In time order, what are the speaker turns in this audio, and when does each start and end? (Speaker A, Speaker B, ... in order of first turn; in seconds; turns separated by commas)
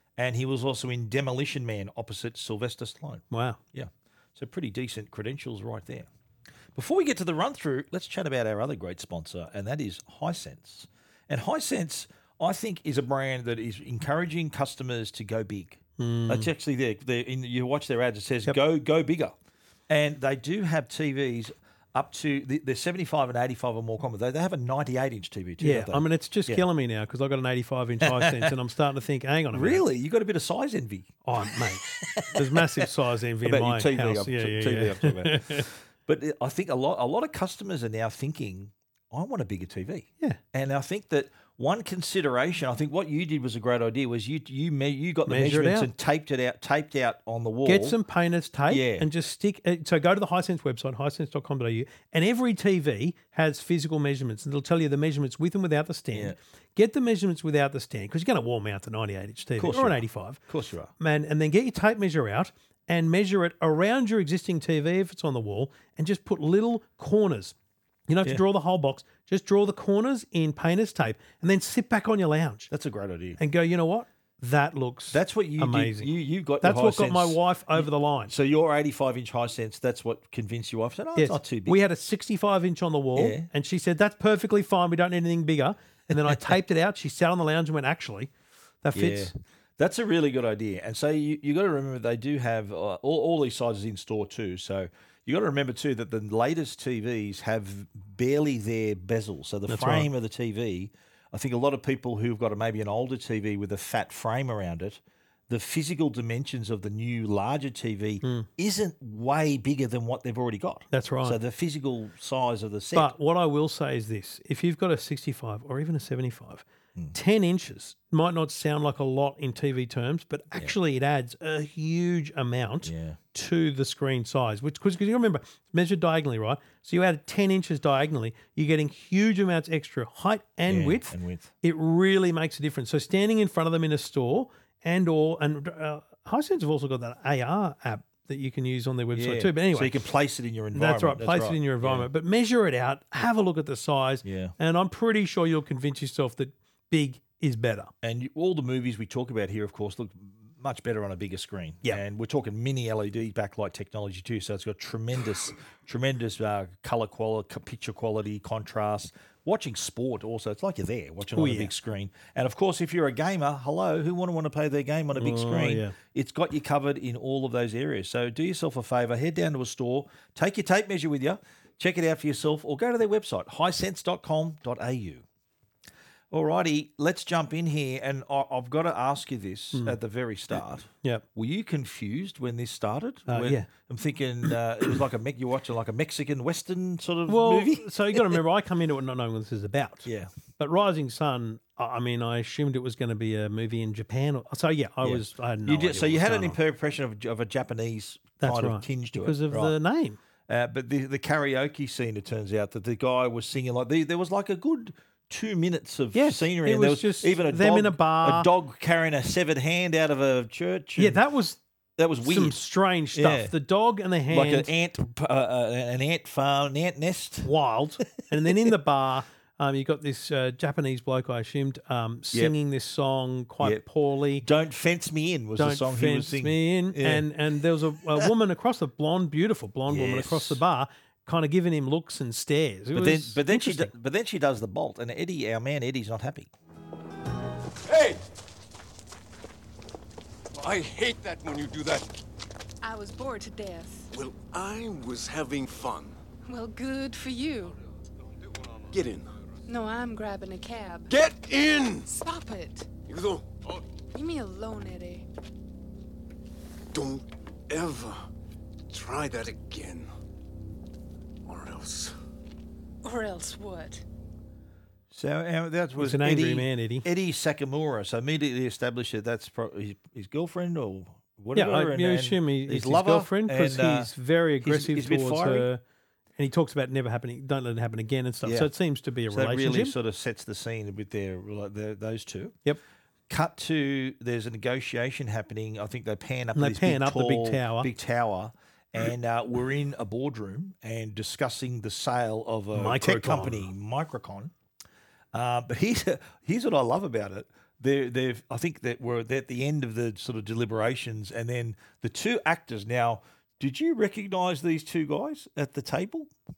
Speaker A: 0.2-6.1, Speaker B: 3.3-3.6, Speaker A: 6.8-19.4, Speaker B: 16.0-16.5, Speaker A: 19.9-26.6, Speaker B: 25.6-29.8, Speaker A: 28.0-28.5, Speaker A: 29.5-32.9, Speaker B: 31.2-35.7, Speaker A: 33.4-48.0, Speaker B: 45.3-45.9, Speaker B: 47.6-60.4, Speaker A: 48.7-49.1, Speaker A: 59.6-60.9, Speaker B: 61.0-67.5, Speaker B: 68.1-72.7, Speaker A: 72.7-73.4, Speaker B: 73.4-76.1, Speaker A: 75.1-81.8, Speaker B: 76.6-78.3, Speaker B: 81.2-88.3, Speaker A: 83.2-83.5, Speaker A: 86.1-86.4, Speaker B: 88.8-89.3, Speaker A: 89.0-113.1, Speaker B: 99.7-100.1, Speaker B: 110.9-111.4, Speaker B: 112.9-140.0, Speaker A: 122.8-123.2, Speaker A: 130.7-131.5, Speaker A: 139.1-142.1, Speaker B: 140.7-147.9, Speaker A: 144.2-144.5, Speaker A: 148.0-175.2, Speaker B: 161.3-161.7, Speaker B: 165.2-165.9, Speaker A: 176.3-188.4, Speaker B: 183.3-183.7, Speaker B: 187.3-196.6, Speaker A: 190.0-190.3, Speaker A: 195.0-199.8, Speaker B: 198.4-200.2, Speaker A: 200.5-211.2, Speaker B: 206.1-208.5, Speaker B: 211.0-211.6, Speaker A: 212.0-212.6, Speaker B: 212.2-214.7, Speaker A: 213.1-213.5, Speaker A: 214.3-217.5, Speaker B: 217.4-224.4, Speaker A: 224.4-227.3, Speaker B: 225.6-233.9, Speaker A: 229.9-230.6, Speaker A: 232.9-236.5, Speaker C: 237.9-238.2, Speaker C: 240.5-242.1, Speaker D: 242.8-244.1, Speaker C: 244.1-246.2, Speaker D: 246.4-247.8, Speaker C: 248.9-249.3, Speaker D: 249.7-251.1, Speaker C: 251.1-252.1, Speaker D: 252.1-252.9, Speaker C: 253.0-253.6, Speaker D: 254.1-255.2, Speaker C: 256.9-258.2, Speaker C: 258.9-260.1, Speaker C: 261.5-262.1, Speaker D: 263.0-264.0, Speaker A: 265.1-274.1, Speaker B: 266.0-267.0, Speaker B: 271.5-275.8, Speaker A: 274.6-275.7, Speaker B: 276.4-279.9, Speaker A: 278.4-278.7, Speaker A: 279.3-282.6, Speaker A: 283.3-294.5, Speaker B: 286.5-287.9, Speaker B: 292.7-293.7, Speaker A: 295.3-306.3